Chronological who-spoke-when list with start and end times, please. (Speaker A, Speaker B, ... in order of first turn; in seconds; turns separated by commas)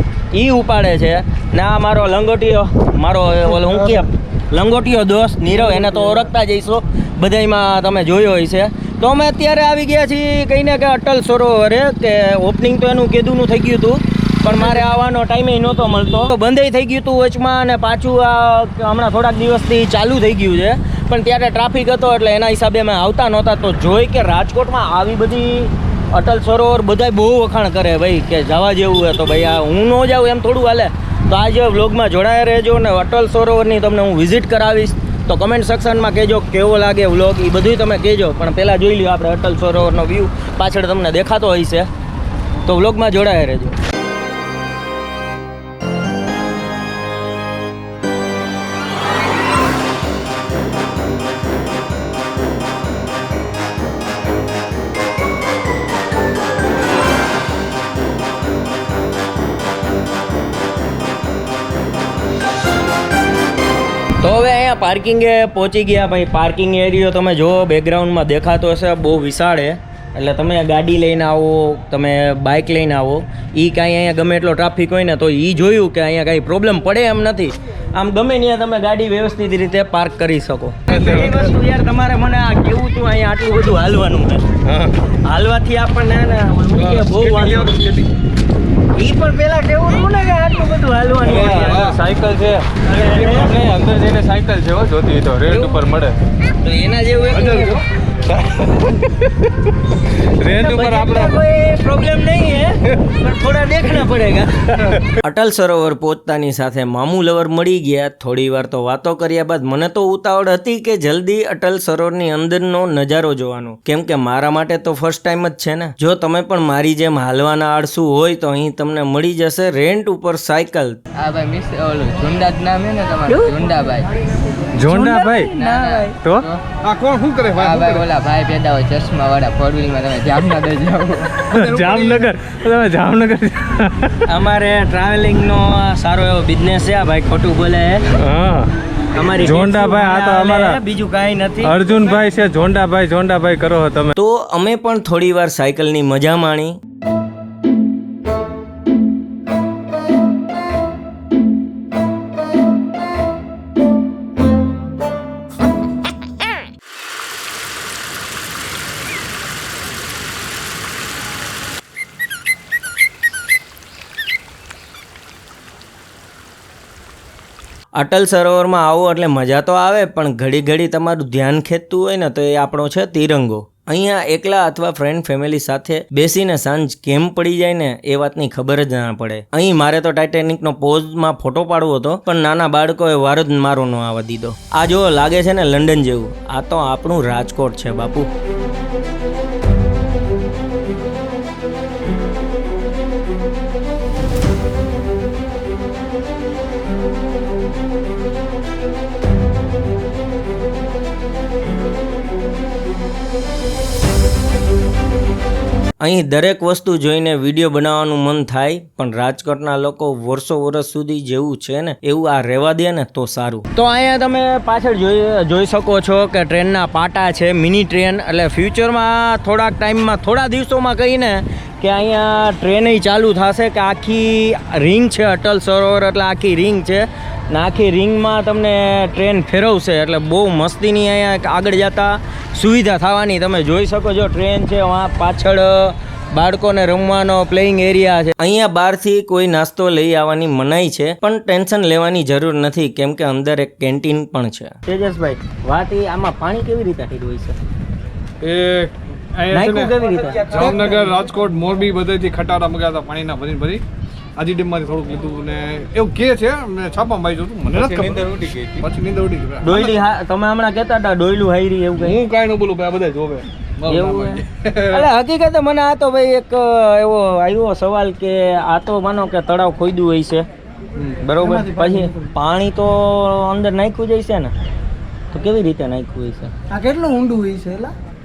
Speaker A: 0.3-41.9, Speaker B: 3.5-4.0, Speaker A: 42.6-43.8, Speaker A: 64.2-84.5, Speaker C: 80.9-81.5, Speaker D: 84.6-85.0, Speaker A: 85.1-87.8, Speaker C: 86.7-88.1, Speaker A: 88.9-92.0, Speaker C: 91.2-92.0, Speaker D: 91.3-96.2, Speaker A: 92.8-93.6, Speaker C: 93.0-93.4, Speaker A: 95.5-95.8, Speaker A: 96.6-97.8, Speaker C: 97.3-97.8, Speaker D: 98.2-99.5, Speaker D: 100.1-101.4, Speaker A: 100.5-121.0, Speaker E: 121.2-124.1, Speaker D: 124.7-126.5, Speaker E: 125.1-126.6, Speaker C: 126.8-128.1, Speaker E: 127.6-131.4, Speaker C: 131.5-132.3, Speaker D: 131.5-134.2, Speaker A: 134.2-138.1, Speaker D: 138.2-138.7, Speaker A: 139.1-142.3, Speaker D: 139.3-140.8, Speaker D: 141.6-144.1, Speaker A: 144.2-146.8, Speaker A: 167.9-188.3, Speaker A: 206.0-247.6, Speaker C: 248.4-253.8, Speaker A: 249.5-250.9, Speaker C: 254.4-260.0, Speaker D: 257.7-258.8, Speaker A: 259.6-262.2, Speaker C: 262.0-265.1, Speaker A: 263.9-270.4, Speaker C: 270.9-271.3, Speaker A: 271.2-274.5, Speaker B: 271.4-272.3, Speaker A: 275.3-276.5, Speaker B: 276.7-277.9